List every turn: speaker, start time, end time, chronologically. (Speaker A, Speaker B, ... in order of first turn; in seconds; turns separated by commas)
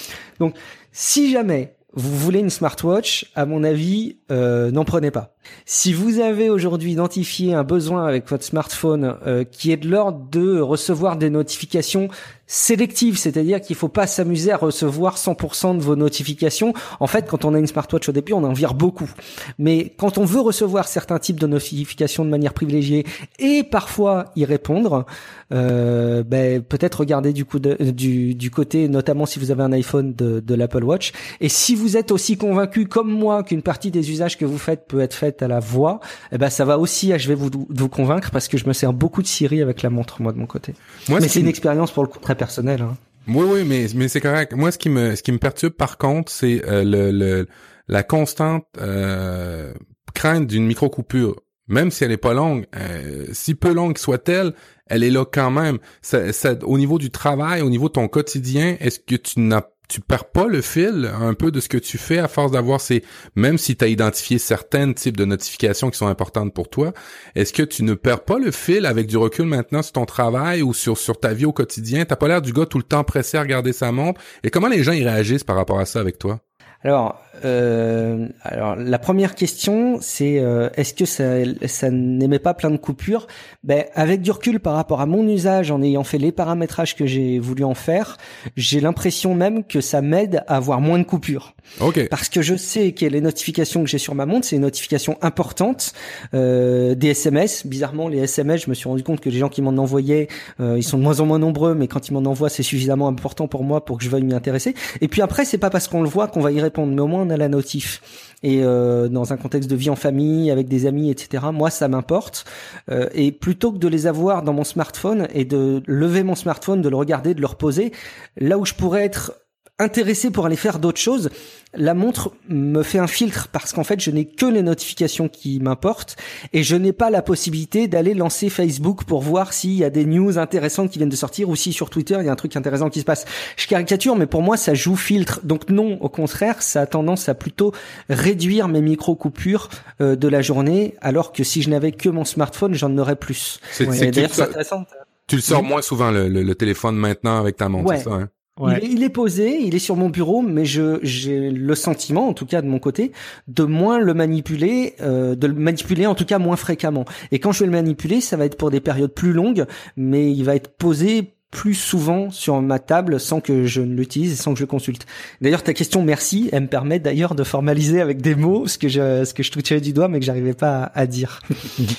Speaker A: 0.4-43.0, Speaker B: 41.1-41.5, Speaker B: 43.3-76.4, Speaker A: 76.8-91.5, Speaker B: 91.8-92.1, Speaker A: 92.1-144.9, Speaker B: 143.7-144.5, Speaker B: 145.3-148.3, Speaker A: 147.8-148.1, Speaker A: 148.6-171.4